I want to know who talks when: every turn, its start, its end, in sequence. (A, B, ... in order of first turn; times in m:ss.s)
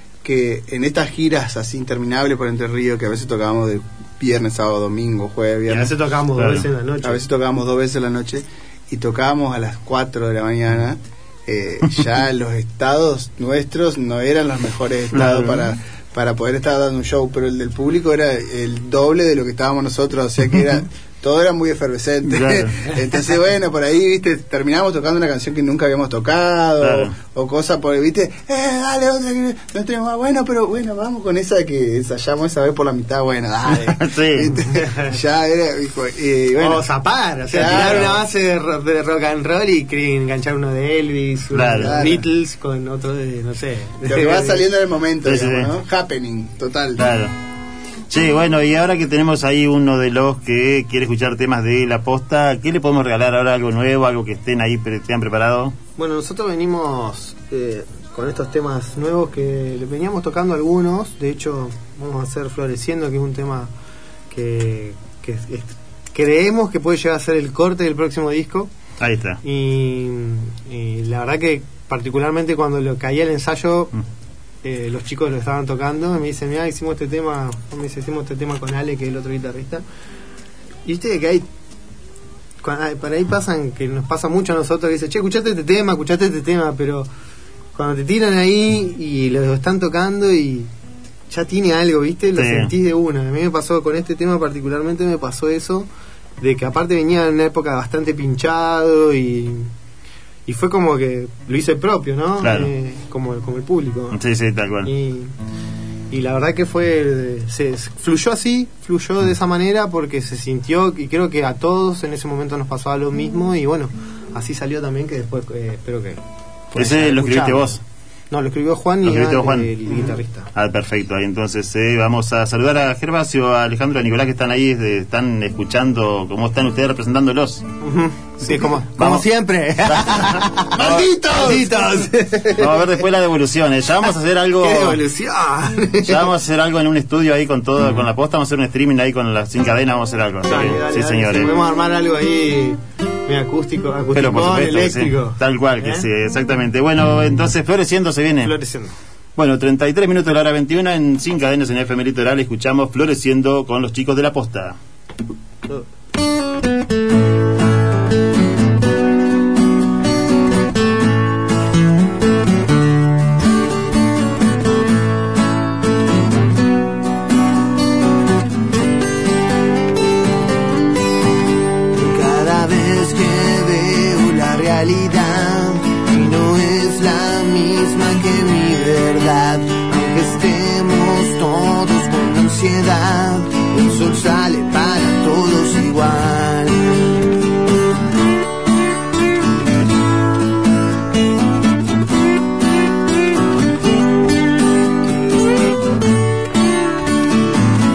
0:00.2-0:05.9 A
0:05.7-0:07.2 B
0:06.4-0:06.7 C
0:07.0-0:36.8 A
0:15.1-0:15.7 C
0:22.2-0:22.7 C
0:26.8-0:27.1 C
0:33.8-0:34.5 C
0:34.5-0:35.1 B
0:36.6-0:44.7 B
0:37.5-0:38.2 A
0:37.6-0:38.1 C
0:41.5-0:42.1 C
0:41.8-0:42.2 A
0:44.0-0:47.0 A
0:45.2-0:45.7 C
0:47.0-0:47.3 C
0:48.1-0:55.8 C
0:56.0-1:03.7 B
1:04.3-1:08.7 B
1:09.0-1:09.4 C
1:09.4-1:13.9 B
1:14.6-1:19.8 B
1:20.8-1:21.4 B
1:22.6-1:27.1 B
1:27.7-1:30.7 B
1:31.3-1:35.9 B
1:32.4-1:32.7 C
1:36.4-1:39.7 B
1:40.4-1:44.2 B
1:42.4-1:42.7 C
1:44.1-1:44.9 C
1:44.8-1:45.3 B
1:46.1-1:56.2 B
1:56.7-1:57.8 B
1:56.8-1:57.8 C
1:58.3-2:00.5 B
1:59.0-2:07.6 C
2:07.8-2:12.9 B
2:08.4-2:09.3 C
2:09.8-2:11.1 C
2:10.8-2:12.0 A
2:12.5-2:15.0 C
2:14.6-2:16.3 B
2:16.0-2:21.5 C
2:20.4-2:26.0 B
2:24.1-2:28.5 C
2:28.4-2:28.9 B
2:29.4-2:34.8 C
2:51.9-3:07.1 D